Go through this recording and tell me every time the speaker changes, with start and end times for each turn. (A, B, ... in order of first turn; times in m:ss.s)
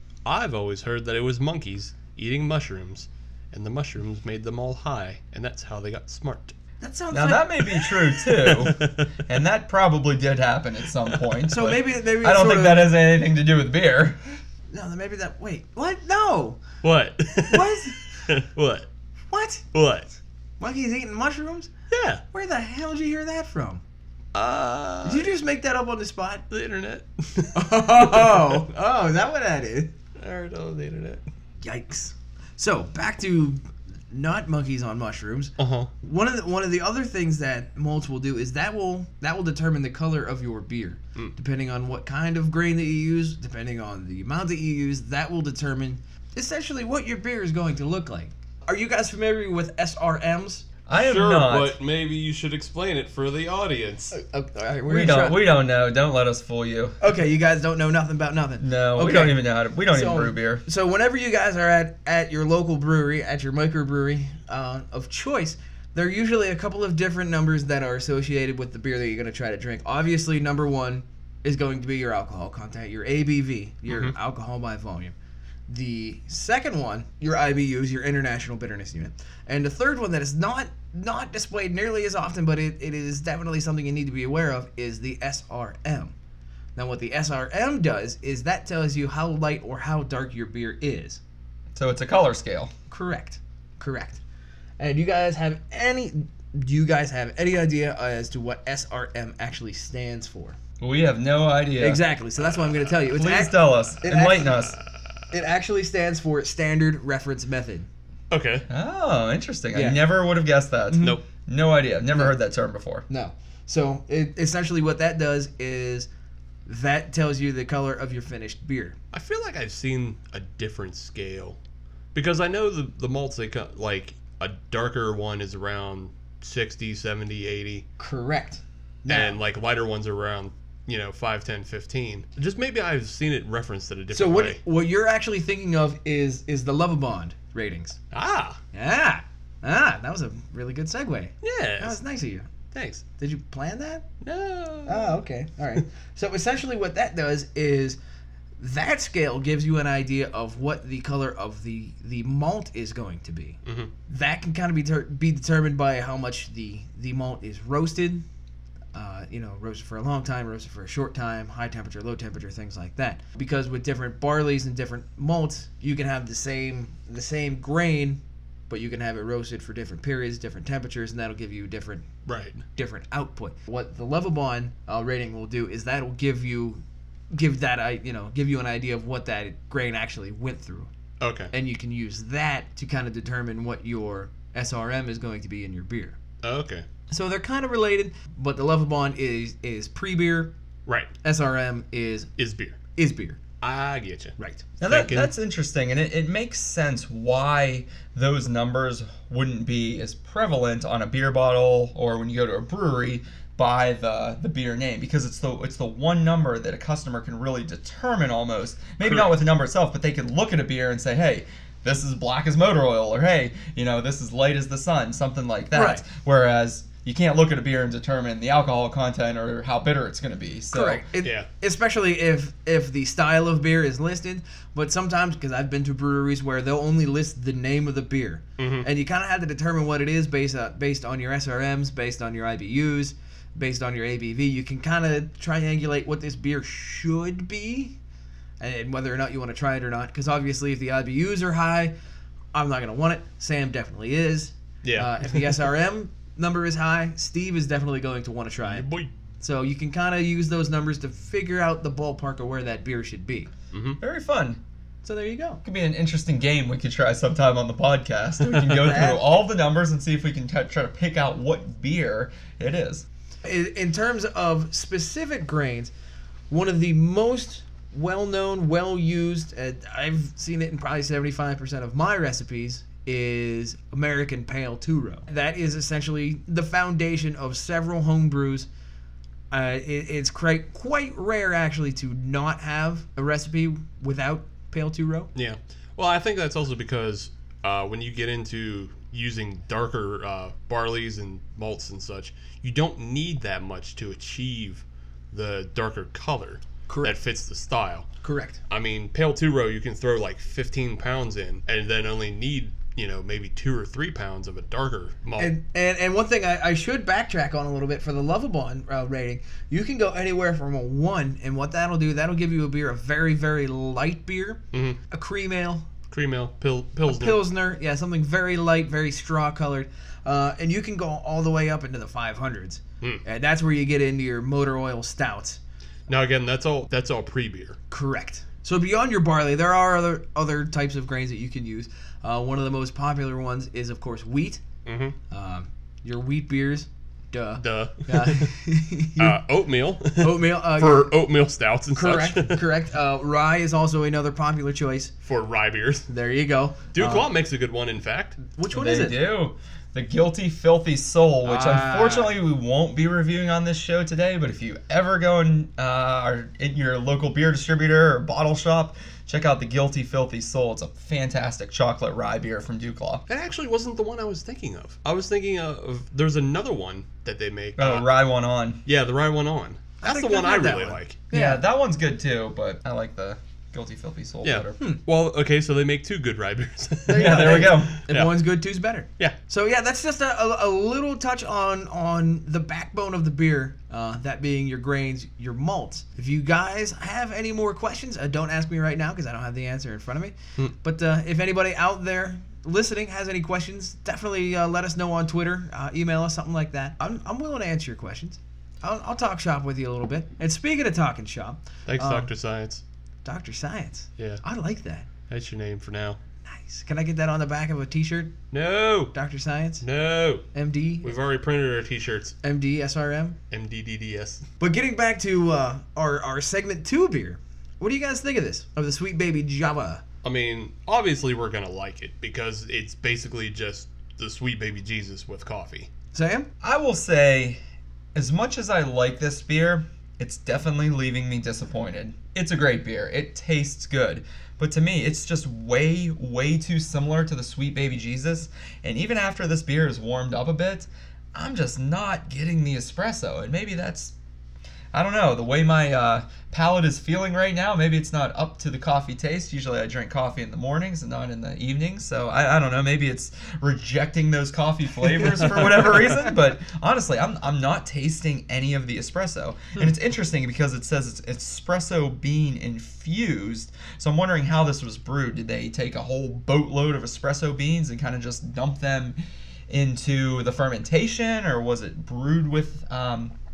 0:00.2-0:06.5 A
0:06.8-0:07.7 B
0:07.1-0:14.2 C
0:07.7-0:09.2 A
0:11.1-0:11.3 A
0:11.5-0:12.9 B
0:14.7-0:16.6 B
0:16.8-0:18.9 A
0:17.4-0:18.3 B
0:19.3-0:19.6 B
0:19.7-0:20.1 A
0:20.6-0:21.7 B
0:21.9-0:22.2 A
0:22.3-0:23.8 B
0:24.3-0:25.3 A
0:25.0-0:26.4 B
0:26.5-0:28.5 A
0:27.5-0:29.9 B
0:30.2-0:31.2 A
0:31.6-0:50.7 B
0:35.6-0:35.9 A
0:50.9-0:51.8 C
0:50.9-0:54.1 A
0:54.1-0:55.4 B
0:54.9-0:57.0 C
0:57.0-1:15.1 B
0:58.6-1:00.6 C
1:13.9-1:14.1 A
1:15.7-1:26.1 B
1:26.8-1:31.2 B
1:31.7-1:32.7 C
1:32.9-1:34.2 B
1:34.8-1:40.6 B
1:40.8-1:42.0 C
1:41.8-1:44.7 B
1:42.6-1:42.8 A
1:43.1-1:44.8 C
1:45.3-1:47.9 B
1:48.3-1:48.6 A
1:48.7-1:53.0 C
1:49.7-1:50.0 B
1:50.9-1:51.2 B
1:51.0-1:51.2 A
1:53.1-1:56.1 B
1:56.6-1:59.0 B
1:59.1-2:01.6 A
2:02.1-2:07.8 A
2:08.0-2:09.4 B
2:09.1-2:14.6 A
2:14.1-2:18.0 B
2:18.1-2:18.6 A
2:18.7-2:22.5 B
2:21.4-2:22.0 A
2:22.7-2:23.0 A
2:23.2-2:24.1 B
2:24.2-2:25.2 A
2:24.8-2:28.0 B
2:28.6-2:38.2 B
2:33.6-2:33.9 A
2:38.9-2:52.1 B
2:52.2-2:52.6 A
2:52.7-3:00.9 B
3:01.2-3:01.5 A
3:01.5-3:06.2 B
3:06.4-3:06.8 A
3:07.1-3:10.5 B
3:11.2-3:12.3 B
3:12.4-3:12.8 A
3:13.0-3:13.4 B
3:13.6-3:15.3 A
3:14.4-3:14.6 B
3:14.8-3:41.0 C
3:29.0-3:29.3 A
3:35.7-3:36.0 B
3:40.7-3:58.0 B
3:41.2-3:41.5 A
3:48.6-3:48.9 A
3:58.6-4:01.9 B
4:02.5-4:08.8 B
4:04.8-4:05.6 A
4:08.7-4:09.1 A
4:09.4-4:13.5 B
4:13.7-4:14.0 A
4:14.0-4:14.6 C
4:15.0-4:15.6 B
4:15.6-4:23.0 C
4:18.5-4:18.8 A
4:18.8-4:19.2 B
4:23.4-4:25.9 B
4:26.5-4:38.7 B
4:39.5-4:45.3 B
4:45.3-4:58.1 A
4:56.9-4:57.1 B
4:58.2-4:58.6 B
4:58.7-5:05.5 A
5:05.4-5:15.9 B
5:14.7-5:15.0 A
5:16.1-5:17.4 A
5:17.0-5:25.6 B
5:26.1-5:27.8 A
5:27.9-5:34.6 B
5:34.8-5:35.2 A
5:35.3-5:39.4 B
5:37.6-5:38.5 A
5:39.2-5:42.6 A
5:40.2-5:41.1 B
5:41.9-5:45.1 B
5:45.2-5:46.1 A
5:46.1-5:47.3 B
5:46.9-5:48.4 A
5:48.6-5:49.2 B
5:48.7-6:03.2 C
5:51.4-5:52.3 B
6:03.3-6:08.1 A
6:07.8-6:08.8 C
6:08.8-6:11.2 A
6:10.0-6:11.6 B
6:11.3-6:14.8 C
6:14.4-6:18.3 A
6:17.0-6:42.3 B
6:17.1-6:18.0 C
6:41.9-6:42.8 A
6:43.2-6:45.1 B
6:45.3-6:46.2 A
6:46.5-6:48.4 B
6:48.5-6:49.1 A
6:49.1-6:49.8 B
6:49.8-6:50.5 A
6:50.5-6:51.1 B
6:51.0-6:52.4 A
6:52.4-6:53.4 B
6:53.5-6:54.4 A
6:54.6-7:00.0 B
7:00.2-7:05.9 A
7:06.1-7:06.5 B
7:06.6-7:07.6 C
7:08.1-7:24.1 C
7:24.9-7:49.2 C
7:35.4-7:35.9 A
7:49.7-7:53.3 C